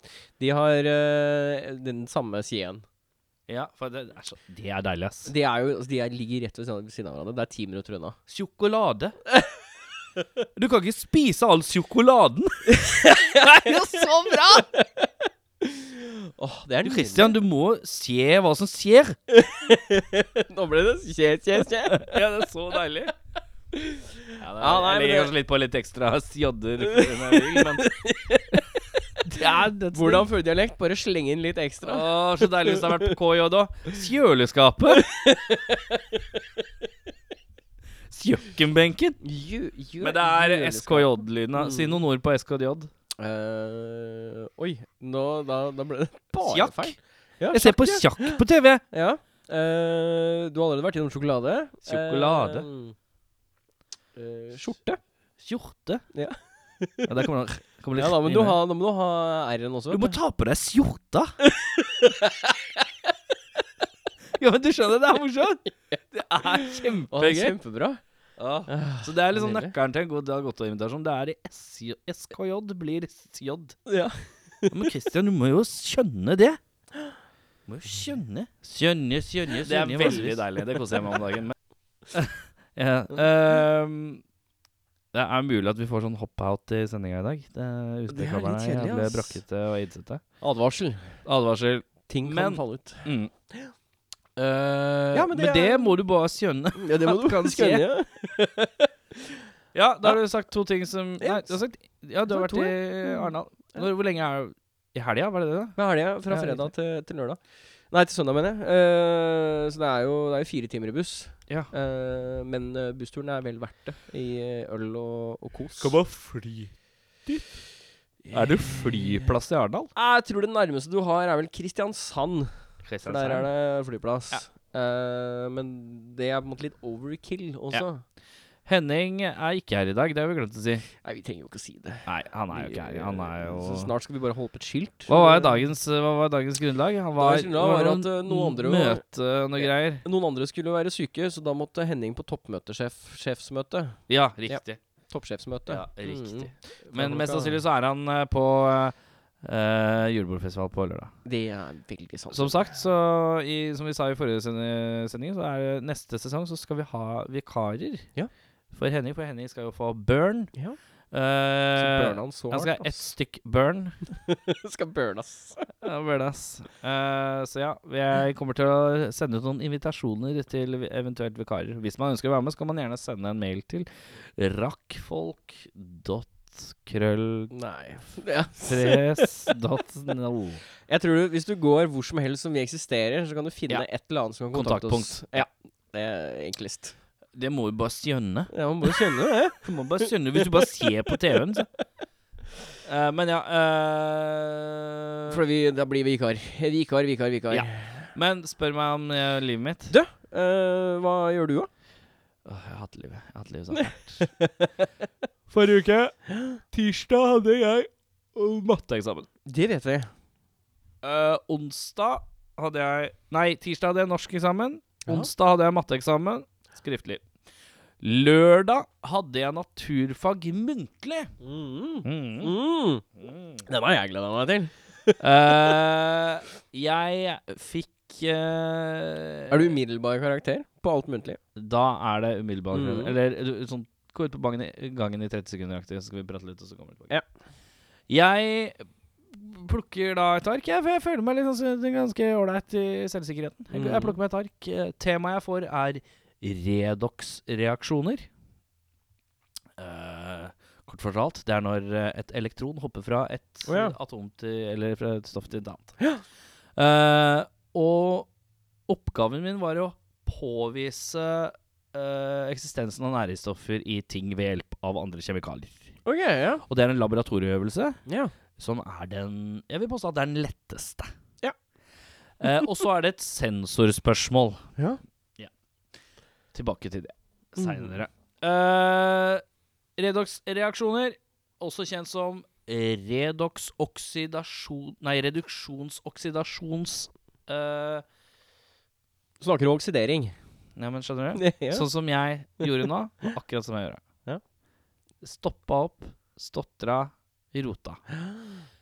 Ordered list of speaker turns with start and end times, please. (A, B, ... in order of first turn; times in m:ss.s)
0:00.4-0:02.8 A
0:03.5-0:05.3 B
0:05.3-0:08.2 A
0:08.3-0:09.2 B
0:10.6-0:14.7 B
0:12.7-0:13.8 A
0:15.6-0:17.4 A
0:16.8-0:19.2 B
0:19.3-0:22.1 A
0:21.9-0:23.1 B
0:23.8-0:24.0 A
0:24.4-0:28.0 B
0:24.6-0:25.3 A
0:26.9-0:29.4 A
0:29.2-0:30.3 B
0:29.9-0:33.1 A
0:31.8-0:35.1 B
0:34.9-0:36.4 A
0:38.1-0:39.2 B
0:39.2-0:42.0 A
0:40.0-0:42.9 B
0:43.2-0:52.9 A
0:46.4-0:48.8 B
0:51.9-0:52.6 B
0:54.2-0:55.0 A
0:55.4-0:56.1 B
0:56.1-0:57.1 A
0:57.0-0:58.6 B
0:58.0-1:00.1 A
0:59.9-1:01.4 B
1:01.4-1:02.5 A
1:04.4-1:07.5 B
1:06.5-1:08.0 A
1:08.4-1:13.8 B
1:08.7-1:09.7 A
1:13.9-1:14.9 A
1:14.7-1:16.6 B
1:17.7-1:21.5 B
1:19.5-1:21.2 A
1:22.1-1:24.2 B
1:25.1-1:30.2 B
1:28.1-1:29.4 A
1:30.4-1:31.2 A
1:31.2-1:33.3 B
1:32.1-1:33.7 A
1:34.4-1:37.8 B
1:35.1-1:36.0 A
1:36.8-1:39.4 A
1:39.7-1:45.8 B
1:41.2-1:41.5 A
1:42.3-1:43.8 A
1:45.8-1:56.0 A
1:46.3-1:46.7 B
1:55.8-1:56.7 B
1:57.2-1:57.6 B
1:58.2-1:59.1 A
1:58.3-1:59.9 B
1:59.9-2:08.0 A
2:02.8-2:03.5 B
2:08.6-2:10.9 B
2:11.0-2:15.6 A
2:12.0-2:13.9 B
2:15.1-2:20.0 B
2:17.2-2:19.0 A
2:19.6-2:27.6 A
2:24.1-2:24.8 B
2:25.7-2:31.1 B
2:31.2-2:32.7 A
2:32.3-2:38.1 B
2:38.7-2:40.5 B
2:41.1-2:44.0 B
2:41.8-2:43.1 A
2:44.3-2:45.6 A
2:45.8-2:57.5 B
2:57.5-2:59.5 A
2:58.6-3:00.6 B
3:00.8-3:07.0 A
3:04.5-3:05.5 B
3:07.3-3:08.5 B
3:08.5-3:09.6 A
3:09.6-3:11.7 B
3:12.8-3:15.4 B
3:15.3-3:18.1 A
3:17.5-3:19.9 B
3:19.9-3:21.7 A
3:22.4-3:24.2 B
3:23.7-3:24.9 A
3:25.5-3:29.3 B
3:26.3-3:26.6 A
3:29.5-3:30.1 A
3:31.0-3:37.2 B
3:35.0-3:35.3 A
3:38.0-3:41.3 B
3:41.4-3:43.0 A
3:42.0-3:42.5 B
3:43.2-3:43.6 B
3:43.7-3:45.2 A
3:45.2-3:49.7 B
3:49.5-3:51.4 A
3:51.6-3:57.1 B
3:52.7-3:53.1 A
3:58.1-3:58.8 B
3:59.3-4:08.3 B
4:03.7-4:04.1 A
4:09.8-4:16.0 B
4:13.7-4:13.9 A
4:16.8-4:18.3 B
4:18.9-4:25.9 B
4:26.0-4:26.6 A
4:26.7-4:28.0 B
4:28.1-4:28.3 A
4:28.6-4:31.1 B
4:32.4-4:34.6 B
4:36.5-4:39.4 B
4:37.6-4:37.9 A
4:40.0-4:48.0 B
4:49.4-4:50.3 A
4:50.8-4:54.0 B
4:51.3-4:51.8 A
4:55.2-4:58.0 B
4:58.1-4:58.6 A